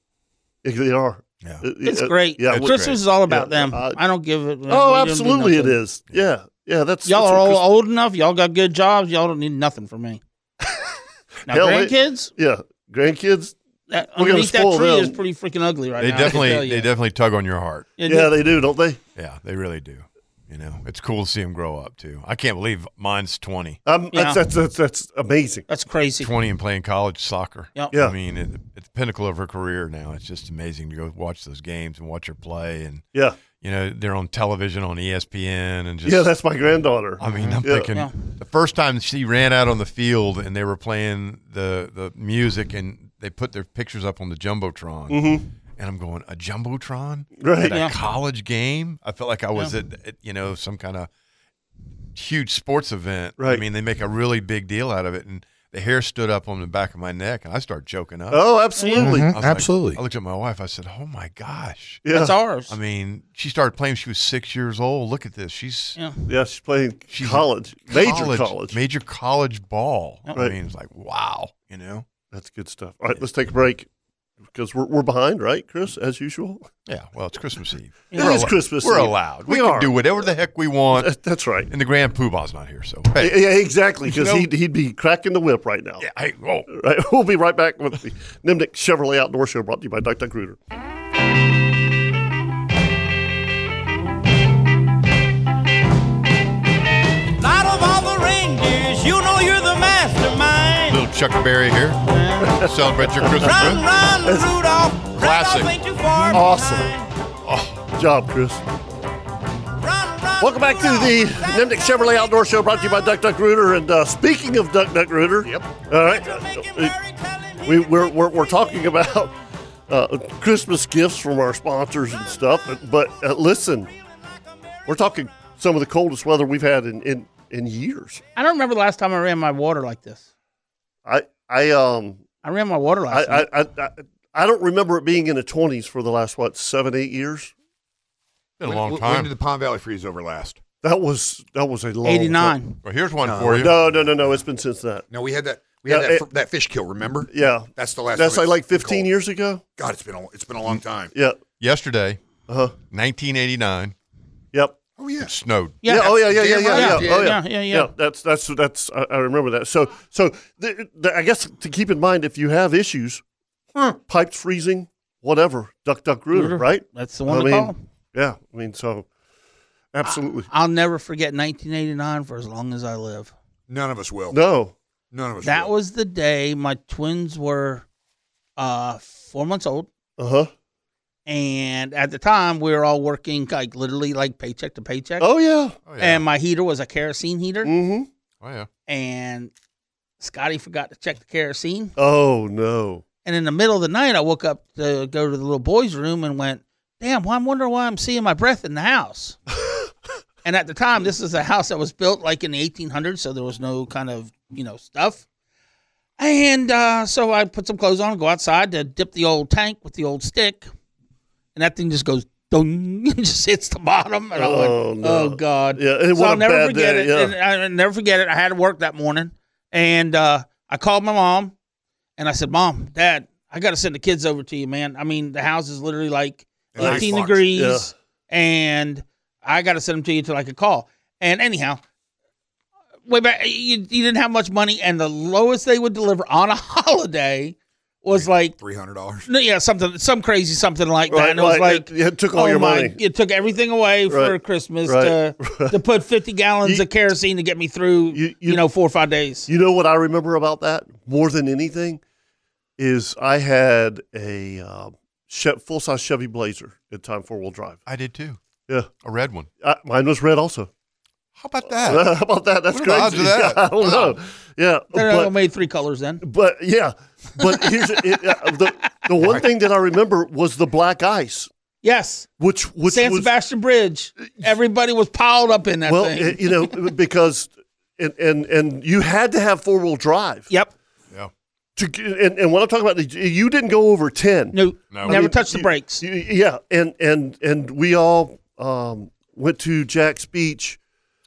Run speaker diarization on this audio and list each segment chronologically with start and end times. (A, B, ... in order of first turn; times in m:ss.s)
0:00.6-0:02.7 A
0:01.8-0:05.8 B
0:02.5-0:03.0 C
0:03.3-0:04.0 A
0:04.7-0:07.6 A
0:07.1-0:10.2 B
0:11.5-0:12.3 B
0:11.5-0:13.6 A
0:13.9-0:16.9 B
0:14.2-0:15.2 A
0:16.0-0:18.0 C
0:18.0-0:18.3 B
0:18.0-0:19.0 A
0:19.2-0:23.8 C
0:23.8-0:25.7 A
0:24.1-0:24.4 B
0:25.7-0:26.3 B
0:26.2-0:36.3 C
0:33.1-0:33.4 A
0:36.0-0:37.9 A
0:37.2-0:51.1 C
0:45.1-0:45.4 A
0:47.4-0:47.8 A
0:47.6-0:48.0 B
0:52.2-0:58.4 C
0:58.3-0:59.3 A
0:58.8-0:59.0 B
0:59.0-1:00.0 D
0:59.3-1:02.0 C
1:02.0-1:02.3 A
1:02.1-1:02.8 B
1:02.7-1:06.0 C
1:06.3-1:08.8 A
1:07.1-1:12.0 C
1:12.3-1:13.9 A
1:14.5-1:16.7 A
1:16.9-1:21.1 C
1:18.1-1:18.4 B
1:18.1-1:20.1 A
1:21.0-1:21.7 A
1:21.7-1:23.4 C
1:23.2-1:26.1 A
1:24.1-1:24.5 C
1:26.0-1:26.7 C
1:26.7-1:30.6 A
1:37.4-1:40.8 E
1:40.9-1:42.1 C
1:42.0-1:42.6 B
1:42.4-1:43.7 A
1:42.6-1:43.8 C
1:43.4-1:47.0 B
1:43.7-1:46.8 E
1:44.2-1:44.5 A
1:45.1-1:45.8 C
1:46.3-1:46.9 A
1:47.4-1:47.8 C
1:47.9-1:48.6 A
1:49.9-1:50.7 E
1:50.4-1:57.0 A
1:50.7-1:51.1 B
1:57.6-1:59.4 A
1:59.9-2:03.9 A
2:04.9-2:08.2 A
2:08.4-2:10.2 B
2:11.0-2:12.2 A
2:12.4-2:13.5 B
2:13.1-2:17.5 A
2:18.6-2:19.3 C
2:18.6-2:20.6 D
2:20.8-2:22.6 A
2:22.0-2:22.8 B
2:22.8-2:23.8 C
2:23.2-2:24.1 D
2:23.5-2:25.1 A
2:25.1-2:29.1 D
2:25.9-2:26.2 A
2:27.3-2:29.6 A
2:29.8-2:31.1 D
2:31.1-2:31.4 A
2:31.6-2:32.2 C
2:32.5-2:32.8 A
2:32.8-2:33.9 C
2:34.5-2:34.8 A
2:35.0-2:35.3 D
2:35.2-2:35.8 C
2:35.8-2:37.9 B
2:35.8-2:43.2 A
2:36.2-2:37.4 D
2:43.9-2:49.1 A
2:46.3-2:47.8 B
2:49.9-2:50.5 A
2:50.0-2:53.3 B
2:53.7-2:54.4 D
2:54.3-2:54.8 A
2:55.1-2:55.7 D
2:55.4-2:57.8 B
2:58.6-2:59.9 B
3:00.2-3:00.5 A
3:01.3-3:05.3 B
3:05.2-3:05.8 A
3:05.9-3:06.2 C
3:06.0-3:07.7 B
3:07.6-3:08.1 A
3:08.4-3:08.7 C
3:08.9-3:09.5 B
3:10.2-3:12.0 B
3:12.0-3:13.0 A
3:13.2-3:19.4 B
3:20.4-3:25.2 B
3:26.2-3:30.7 B
3:31.6-3:41.5 B
3:34.4-3:37.3 A
3:42.2-3:51.8 B
3:46.7-3:47.4 D
3:46.8-3:47.9 A
3:53.1-3:58.6 B
3:58.1-3:59.3 D
3:59.3-4:09.5 B
4:01.1-4:03.0 A
4:04.1-4:05.8 A
4:08.1-4:08.6 A
4:09.5-4:12.0 A
4:12.8-4:17.8 A
4:17.9-4:18.4 C
4:19.0-4:19.5 C
4:19.6-4:20.7 A
4:21.4-4:24.2 C
4:21.8-4:25.3 A
4:24.9-4:26.2 B
4:26.2-4:31.5 A
4:29.2-4:29.5 D
4:31.8-4:32.3 B
4:32.4-4:33.3 A
4:32.9-4:36.8 B
4:35.8-4:40.5 A
4:41.8-4:50.8 A
4:44.5-4:46.0 B
4:44.9-4:45.2 C